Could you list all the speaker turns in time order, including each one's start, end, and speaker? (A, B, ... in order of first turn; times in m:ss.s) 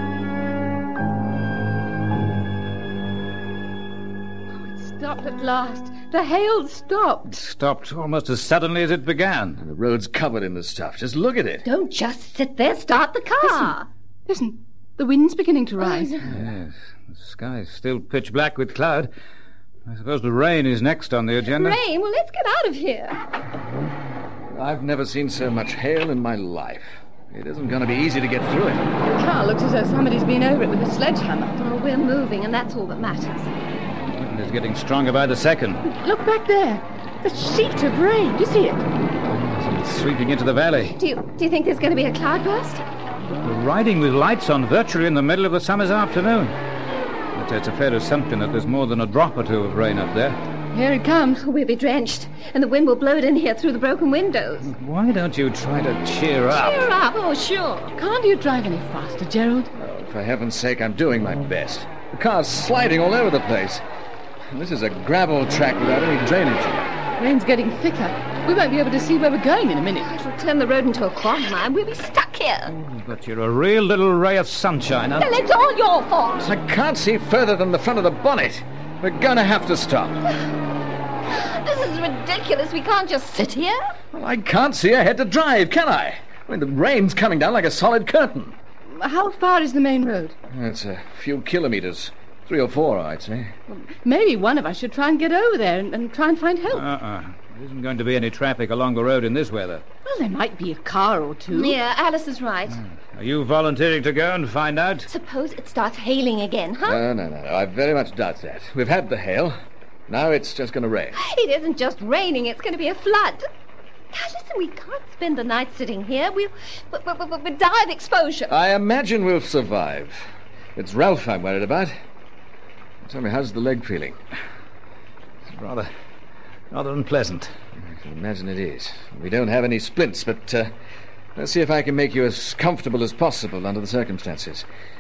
0:04.6-0:07.4 A
0:07.3-0:09.6 B
0:09.6-0:11.6 C
0:11.6-0:13.9 D
0:13.4-0:13.8 A
0:14.3-0:16.2 A
0:15.8-0:16.1 D
0:16.3-0:19.1 B
0:19.9-0:21.8 B
0:21.6-0:23.2 D
0:24.5-0:28.8 C
0:29.2-0:31.6 A
0:31.6-0:33.5 D
0:34.1-0:35.8 B
0:35.8-0:38.9 A
0:39.3-0:41.0 B
0:41.0-0:42.8 D
0:43.3-0:46.6 B
0:47.3-0:50.4 B
0:50.7-0:51.4 A
0:51.4-0:54.7 D
0:54.7-0:56.8 B
0:56.5-0:57.9 D
0:58.0-0:59.7 A
0:59.8-1:03.8 C
1:04.5-1:06.9 C
1:07.2-1:10.1 A
1:10.0-1:12.8 D
1:12.8-1:15.3 B
1:15.2-1:16.5 D
1:16.4-1:20.2 C
1:21.3-1:23.9 D
1:24.1-1:28.6 C
1:28.9-1:30.4 A
1:30.5-1:33.5 C
1:33.7-1:36.8 A
1:36.7-1:39.8 B
1:40.0-1:41.8 A
1:41.5-1:42.8 D
1:42.8-1:45.1 B
1:45.1-1:47.0 D
1:46.8-1:49.6 C
1:50.1-1:51.2 C
1:51.1-1:53.5 D
1:54.1-1:58.5 D
1:58.5-2:00.2 C
2:00.8-2:01.9 C
2:03.0-2:04.2 C
2:05.5-2:05.9 B
2:06.7-2:07.5 B
2:07.9-2:10.7 C
2:11.4-2:14.6 C